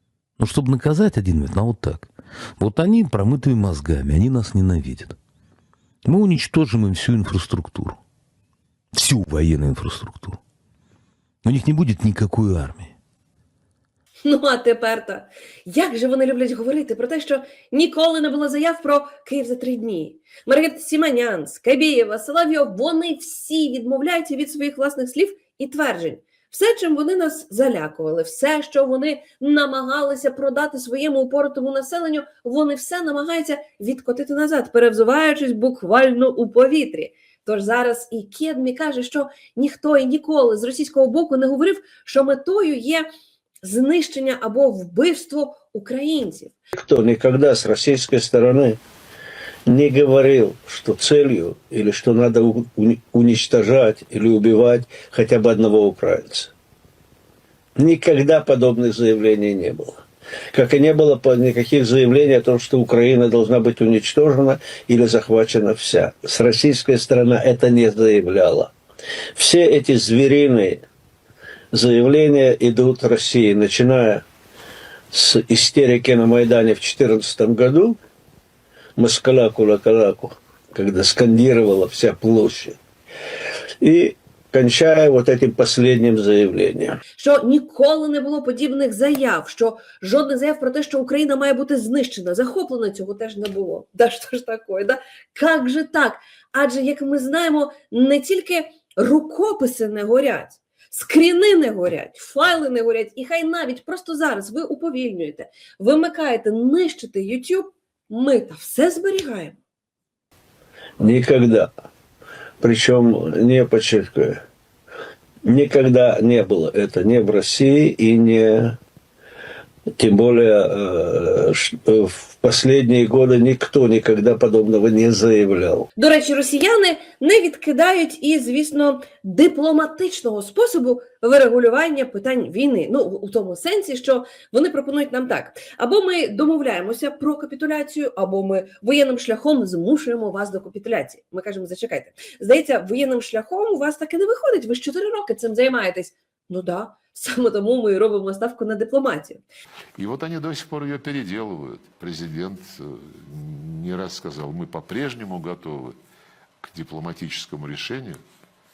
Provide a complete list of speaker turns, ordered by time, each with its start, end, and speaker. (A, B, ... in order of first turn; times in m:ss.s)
0:00.4-0:05.2 A
0:06.0-0:08.0 A
0:08.9-0:10.4 A
0:11.4-0:12.9 A
0:14.2-0:43.1 B
0:43.6-0:46.5 B
0:46.7-0:48.8 C
0:49.7-0:56.5 C
0:57.8-1:08.7 C
1:09.3-1:10.8 C
1:11.7-1:14.2 C
1:15.1-1:18.0 C
1:19.0-1:22.8 C
1:23.8-1:27.0 C
1:27.2-1:49.6 B
1:51.0-1:51.7 C
1:52.6-1:54.4 C
1:55.4-1:58.8 C
1:59.9-2:05.9 C
2:06.0-2:29.4 B
2:30.0-2:36.0 D
2:36.6-2:38.2 D